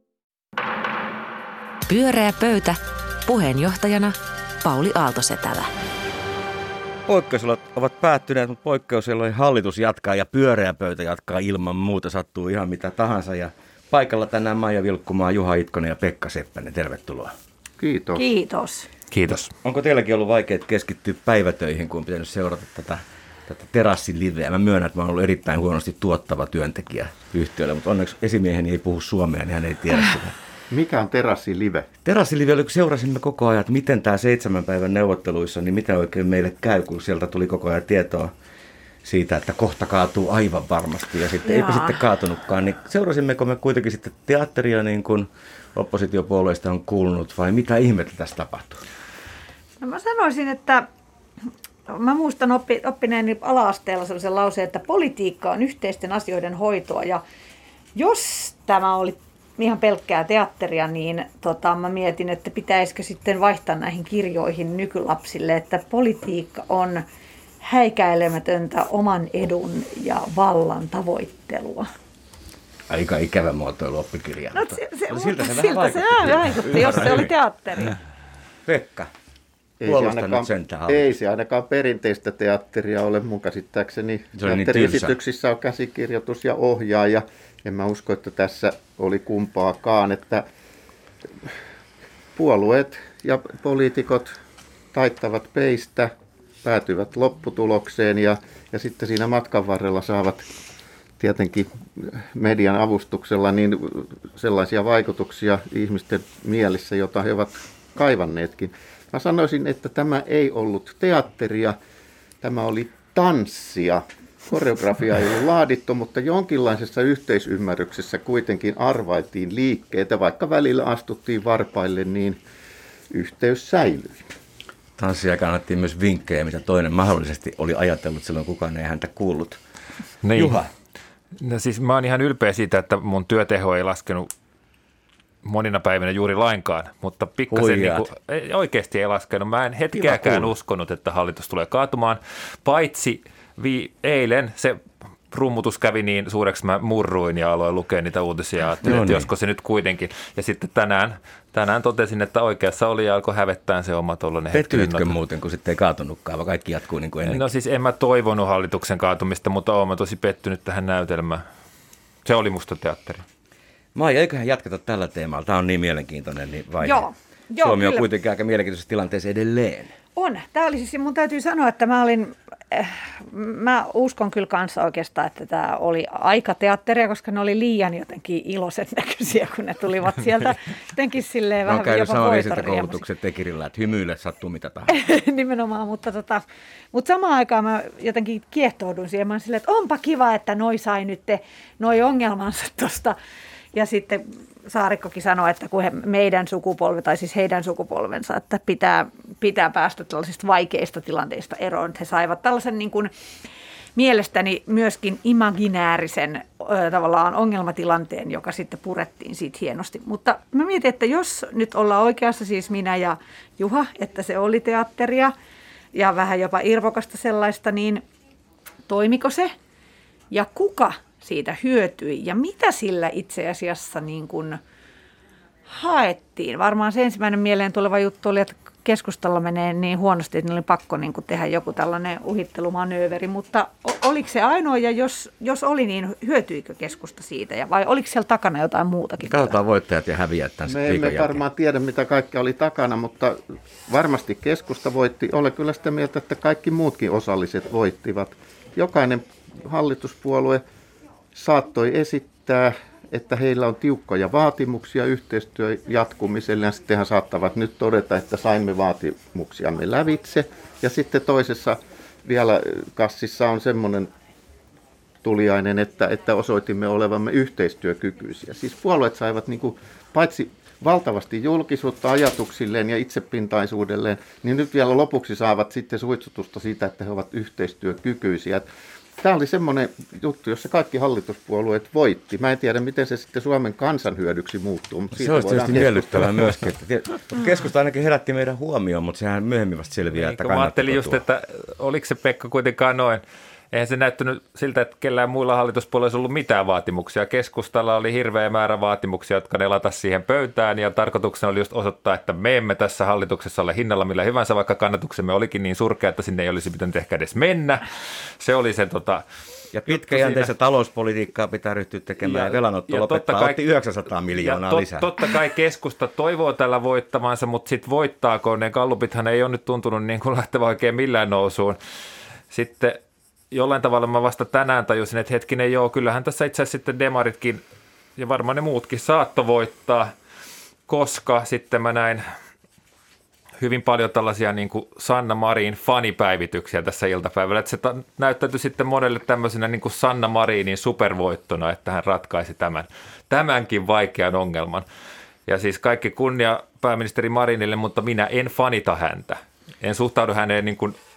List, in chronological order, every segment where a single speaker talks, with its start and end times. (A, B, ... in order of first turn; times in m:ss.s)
0:01.9-0:05.7 A
0:07.1-0:17.3 B
0:17.8-0:18.2 C
0:18.2-0:18.9 D
0:19.1-0:19.5 E
0:19.6-0:30.4 B
0:30.7-0:31.9 C
0:32.0-0:38.3 B
0:39.0-0:48.8 B
0:41.4-0:42.0 D
0:49.8-0:50.9 D
0:51.9-0:57.2 D
0:58.0-1:07.0 D
1:07.6-1:11.9 D
1:12.9-1:17.3 B
1:14.5-1:18.0 D
1:18.7-1:19.1 B
1:19.8-1:30.4 C
1:19.9-1:21.1 B
1:24.4-1:25.1 B
1:32.3-1:34.3 C
1:34.9-1:40.4 C
1:41.2-1:51.8 C
1:52.4-2:02.4 C
2:03.1-2:04.3 C
2:05.0-2:09.6 B
2:10.2-2:10.6 E
2:10.4-2:10.7 B
2:11.3-2:14.3 E
2:15.4-2:35.2 E
2:17.5-2:18.1 B
2:20.0-2:20.5 B
2:28.8-2:29.3 B
2:34.5-2:37.4 B
2:37.2-2:41.4 E
2:42.2-2:43.2 E
2:44.0-2:47.1 B
2:46.8-2:48.1 D
2:47.6-2:49.9 B
2:50.2-3:03.0 D
3:01.6-3:05.0 B
3:04.9-3:13.2 D
3:13.7-3:23.1 D
3:24.0-3:35.3 D
3:35.9-3:38.0 D
3:38.9-3:39.6 D
3:40.3-3:44.6 D
3:45.7-3:59.6 D
3:59.2-4:01.4 B
4:00.7-4:10.6 C
4:11.3-4:24.1 C
4:25.2-4:38.7 C
4:39.2-4:46.5 C
4:45.2-4:51.2 B
4:50.1-5:09.2 E
5:09.7-5:15.1 B
5:09.8-5:10.5 E
5:12.2-5:13.6 E
5:14.3-5:21.8 E
5:22.5-5:23.0 E
5:23.5-5:27.6 E
5:28.2-5:30.1 E
5:30.9-5:32.2 E
5:33.6-5:44.8 E
5:45.5-5:51.0 E